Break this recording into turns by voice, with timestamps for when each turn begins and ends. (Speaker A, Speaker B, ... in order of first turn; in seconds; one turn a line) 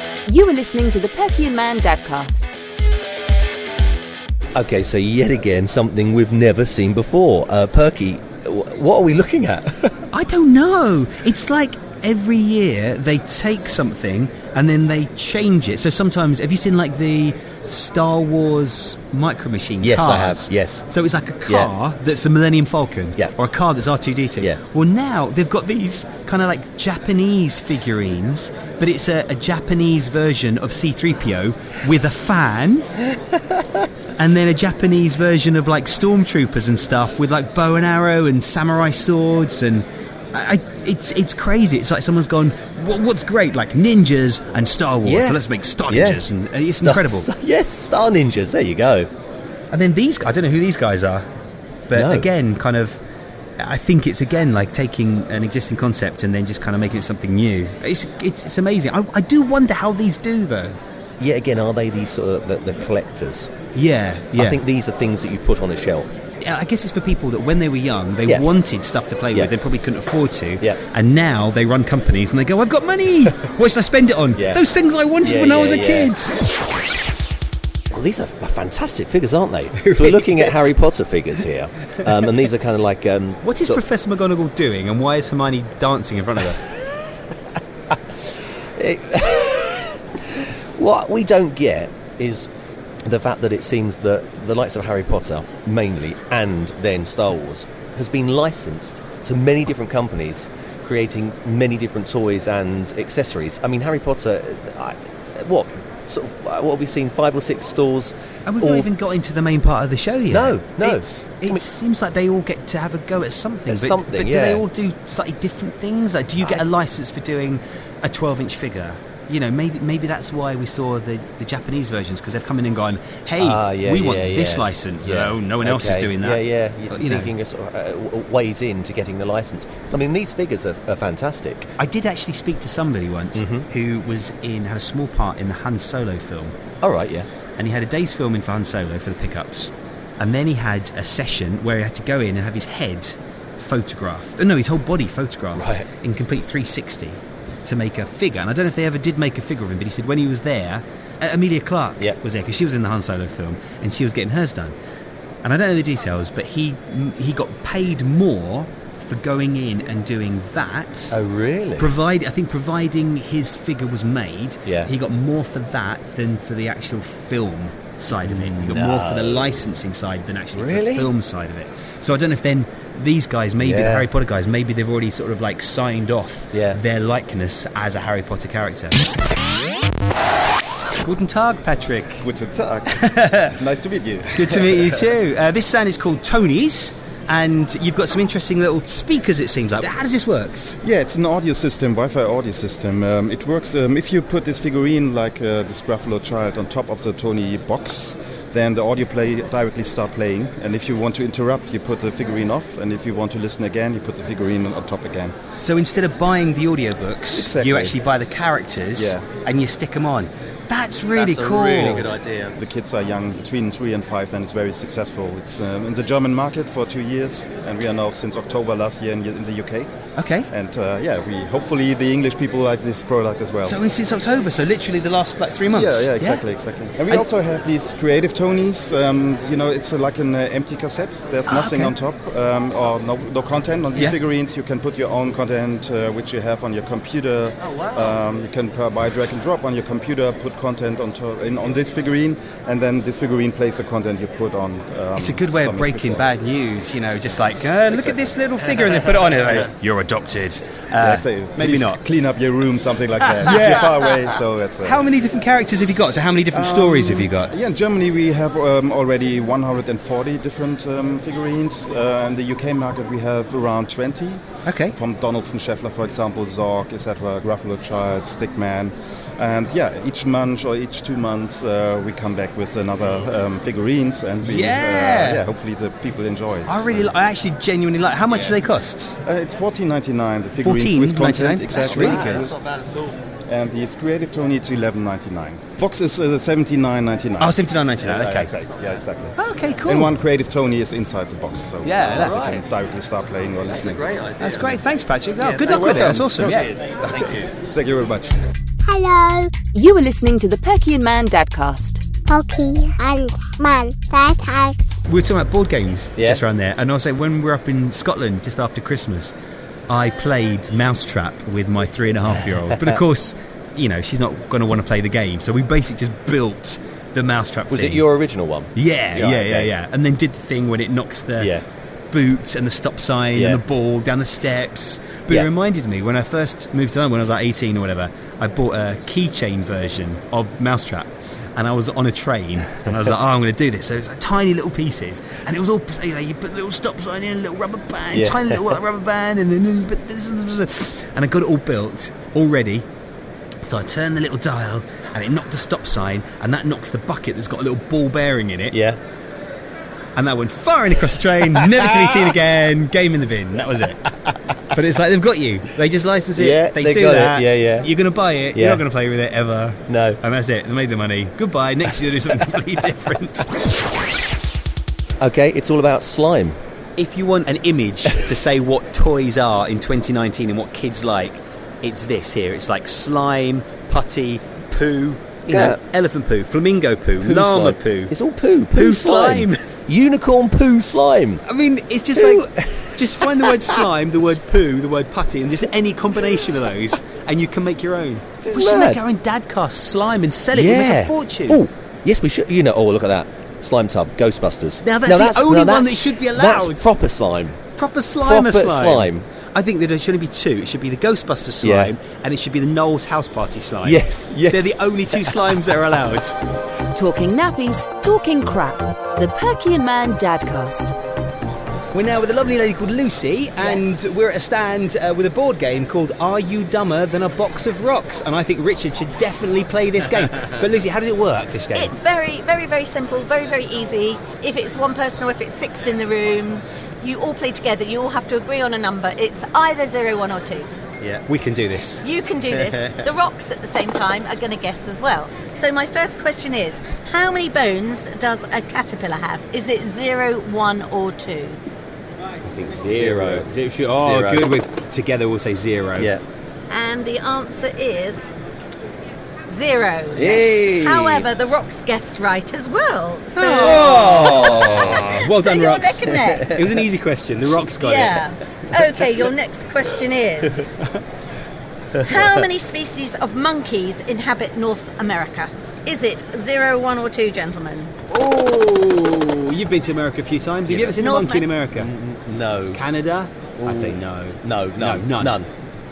Speaker A: 0.3-2.5
Speaker B: 4.5-10.1
Speaker C: 10.1-32.9
Speaker B: 19.8-20.9
Speaker B: 21.5-21.7
Speaker B: 33.1-33.8
Speaker C: 34.2-47.3
Speaker B: 45.0-49.1
Speaker C: 49.7-51.2
Speaker C: 51.9-53.0
Speaker B: 51.9-52.3
Speaker C: 53.6-60.8
Speaker B: 61.2-63.5
Speaker C: 63.8-64.6
Speaker B: 64.4-66.1
Speaker C: 66.4-76.5
Speaker B: 74.3-74.7
Speaker B: 75.2-76.1
Speaker B: 77.9-83.8
Speaker C: 79.8-80.7
Speaker C: 83.4-86.7
Speaker B: 86.8-87.4
Speaker B: 88.6-92.5
Speaker B: 93.1-108.9
Speaker C: 108.5-127.3
Speaker B: 110.3-111.6
Speaker B: 113.7-114.7
Speaker B: 123.4-131.7
Speaker C: 131.8-136.6
Speaker B: 133.4-133.7
Speaker B: 136.8-137.3
Speaker C: 137.6-154.8
Speaker B: 145.6-145.9
Speaker C: 155.4-161.1
Speaker B: 161.1-161.9
Speaker C: 161.8-179.0
Speaker B: 164.7-164.9
Speaker B: 168.2-169.5
Speaker B: 170.5-171.1
Speaker B: 173.6-174.1
Speaker B: 176.5-176.8
Speaker C: 181.0-182.3
Speaker D: 182.2-185.1
Speaker C: 182.9-183.4
Speaker C: 184.3-190.7
Speaker D: 190.8-205.4
Speaker C: 205.6-212.1
Speaker D: 207.3-207.9
Speaker D: 209.0-209.2
Speaker B: 211.1-212.6
Speaker D: 212.6-219.9
Speaker C: 220.2-220.5
Speaker D: 220.5-223.8
Speaker C: 223.6-226.4
Speaker D: 225.7-246.3
Speaker C: 231.5-231.9
Speaker B: 237.6-238.2
Speaker C: 245.2-252.0
Speaker D: 251.0-255.0
Speaker C: 253.4-253.9
Speaker C: 254.8-257.5
Speaker D: 256.5-277.1
Speaker C: 264.6-265.0
Speaker C: 274.4-275.5
Speaker C: 276.7-279.2
Speaker D: 279.2-282.6
Speaker C: 280.6-282.5
Speaker B: 281.8-283.0
Speaker D: 283.5-289.4
Speaker C: 287.4-288.5
Speaker C: 289.4-290.1
Speaker D: 289.9-294.0
Speaker C: 291.8-292.6
Speaker B: 291.9-292.6
Speaker B: 293.7-294.8
Speaker C: 294.4-296.7
Speaker B: 295.4-297.5
Speaker D: 295.7-298.4
Speaker E: 298.9-299.6
Speaker A: 299.6-302.1
Speaker E: 302.3-304.8
Speaker C: 305.1-309.3
Speaker B: 306.2-306.4
Speaker C: 309.9-318.1
Speaker B: 312.4-313.0
Speaker B: 317.7-319.7
Speaker C: 318.8-321.6
Speaker B: 321.4-321.6
Speaker C: 322.1-342.9
Speaker B: 323.4-323.6
Speaker B: 338.1-338.8
Speaker C: 343.6-348.8
Speaker B: 348.7-349.0
Speaker C: 350.2-354.1
Speaker B: 351.6-352.3
Speaker B: 354.3-354.5
Speaker C: 354.7-363.7
Speaker B: 356.4-357.9
Speaker B: 358.6-358.9
Speaker B: 359.9-360.2
Speaker B: 365.2-366.6
Speaker C: 367.0-378.1
Speaker B: 375.5-375.8
Speaker B: 377.2-381.4
Speaker C: 378.7-379.6
Speaker C: 381.5-391.6
Speaker B: 382.2-383.8
Speaker B: 388.4-389.0
Speaker B: 390.5-397.6
Speaker C: 394.8-396.9
Speaker C: 397.8-406.4
Speaker B: 398.2-399.3
Speaker B: 401.6-401.9
Speaker B: 403.8-405.3
Speaker A: 406.9-410.9
Speaker C: 411.9-421.9
Speaker F: 421.7-430.7
Speaker C: 431.2-432.1
Speaker F: 432.0-441.6
Speaker C: 442.4-446.1
Speaker B: 442.9-444.5
Speaker B: 446.0-446.2
Speaker F: 446.7-448.3
Speaker F: 449.5-456.5
Speaker B: 450.1-451.3
Speaker C: 453.4-458.3
Speaker B: 453.4-455.2
Speaker B: 456.2-456.8
Speaker F: 457.8-460.8
Speaker F: 462.0-467.9
Speaker C: 468.1-471.9
Speaker B: 470.7-471.0
Speaker F: 471.0-471.5
Speaker B: 471.7-472.8
Speaker C: 472.7-475.4
Speaker B: 473.6-475.5